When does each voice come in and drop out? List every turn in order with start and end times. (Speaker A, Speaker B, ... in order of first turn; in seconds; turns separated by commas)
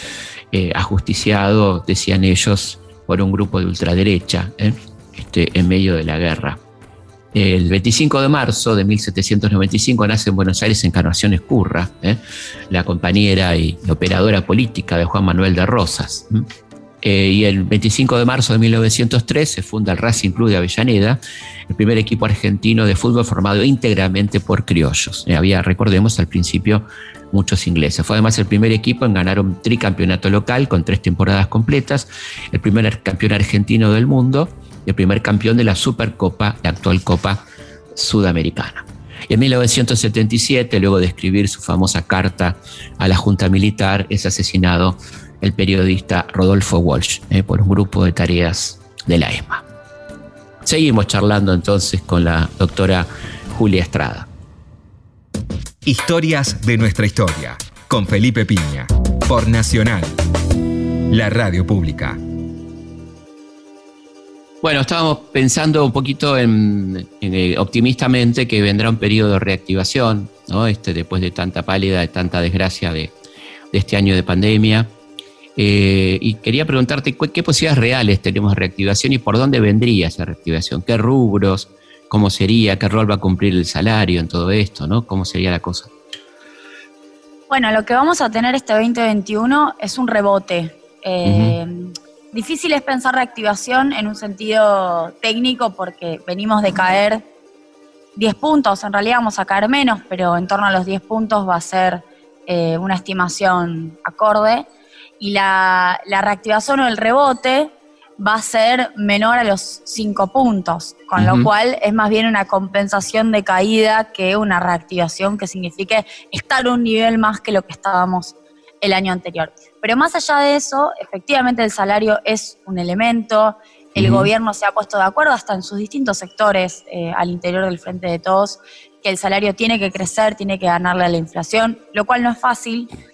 Speaker A: 0.5-6.6, Speaker A: 7.3-16.4, Speaker A: 17.0-37.4, Speaker A: 37.9-49.6, Speaker A: 50.6-54.3, Speaker B: 55.8-60.2, Speaker B: 61.1-62.2, Speaker A: 64.6-73.1, Speaker A: 73.7-74.9, Speaker A: 75.5-85.9, Speaker C: 87.5-97.2, Speaker A: 91.2-91.5, Speaker C: 98.2-104.7, Speaker C: 105.2-132.9, Speaker A: 111.2-111.5, Speaker A: 124.0-124.3